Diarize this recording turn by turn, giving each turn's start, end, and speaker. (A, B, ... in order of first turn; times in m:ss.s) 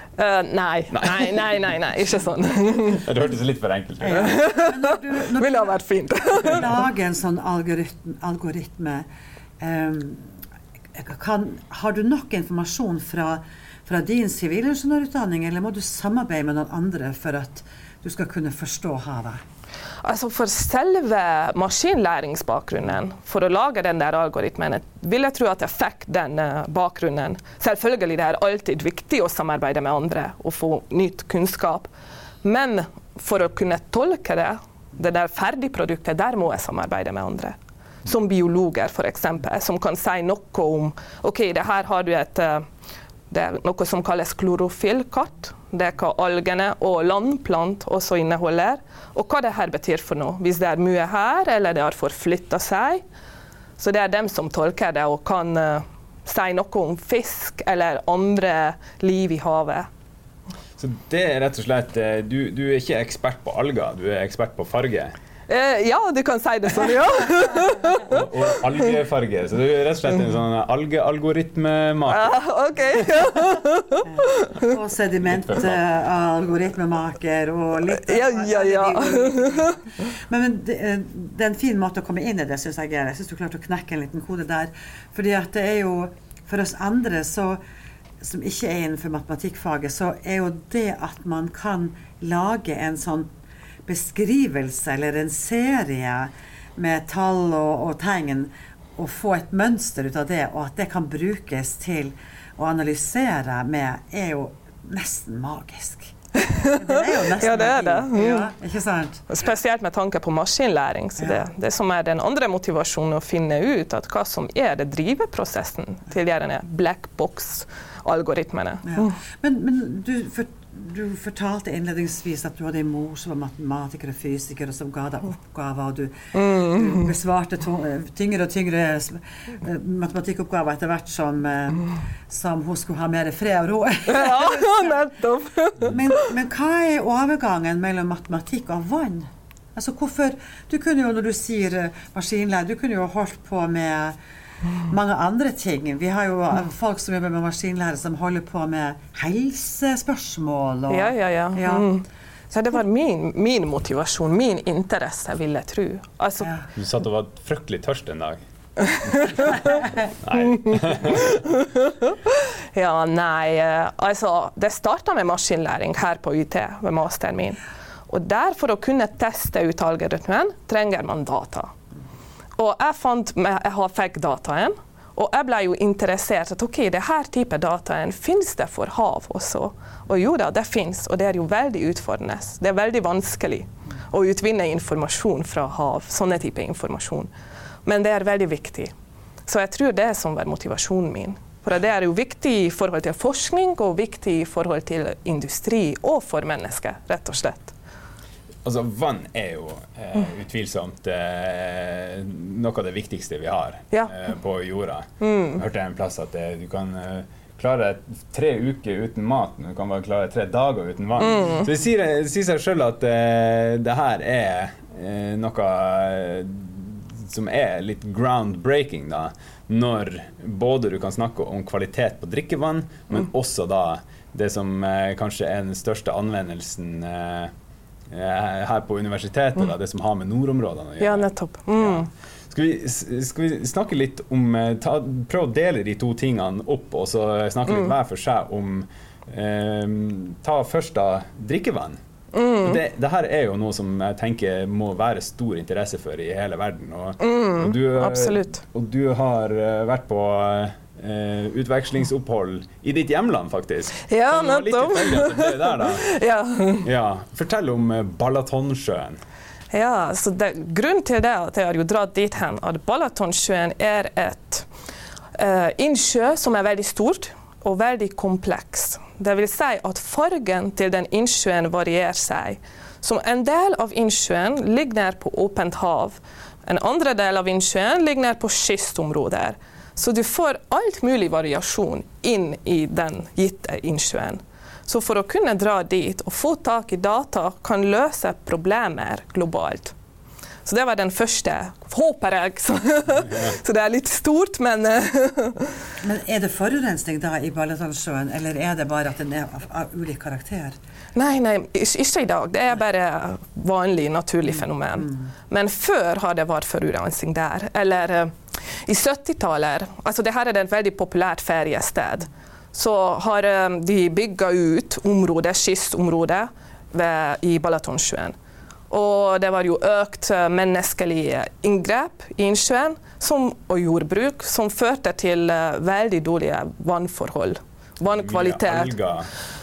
0:00.2-0:03.0 A
0:00.9-0:01.6 B
0:02.9-0:04.4 B
0:04.0-0:09.1 C
0:04.2-0:06.7 A
0:09.6-0:10.3 C
0:11.0-0:19.4 C
0:20.0-0:31.9 A
0:32.4-0:42.7 A
0:43.3-0:53.0 A
0:53.8-0:59.9 A
1:00.8-1:05.2 B
1:05.5-1:08.1 A
1:08.0-1:12.4 B
1:12.1-1:14.6 A
1:14.1-1:27.6 C
1:15.2-1:15.8 B
1:17.9-1:19.8 A
1:28.2-1:33.3 C
1:33.9-1:49.3 C
1:46.4-1:48.5 A
1:49.3-1:59.1 A
1:51.2-1:51.5 C
1:58.8-2:15.0 C
2:06.3-2:07.1 A
2:14.1-2:16.3 A
2:15.8-2:24.2 C
2:24.8-2:31.9 C
2:30.9-2:36.5 A
2:36.4-2:36.6 C
2:36.8-2:38.4 B
2:38.9-2:39.3 A
2:40.2-2:41.4 B
2:40.6-2:51.7 A
2:52.6-3:07.3 A
3:07.9-3:08.9 A
3:09.5-3:17.7 A
3:18.6-3:47.5 B
3:25.2-3:25.6 A
3:31.2-3:31.7 A
3:48.1-4:02.0 B
3:51.0-3:52.1 A
4:02.3-4:02.8 A
4:02.6-4:16.1 B
4:07.2-4:08.6 A
4:14.1-4:16.9 A
4:16.8-4:19.2 B
4:19.7-4:24.7 A
4:25.4-4:49.9 A
4:50.7-4:55.8 A
4:56.0-5:00.8 C
5:01.2-5:08.3 A
5:04.6-5:05.3 C
5:08.9-5:18.4 A
5:18.9-5:28.9 A
5:28.0-5:29.3 B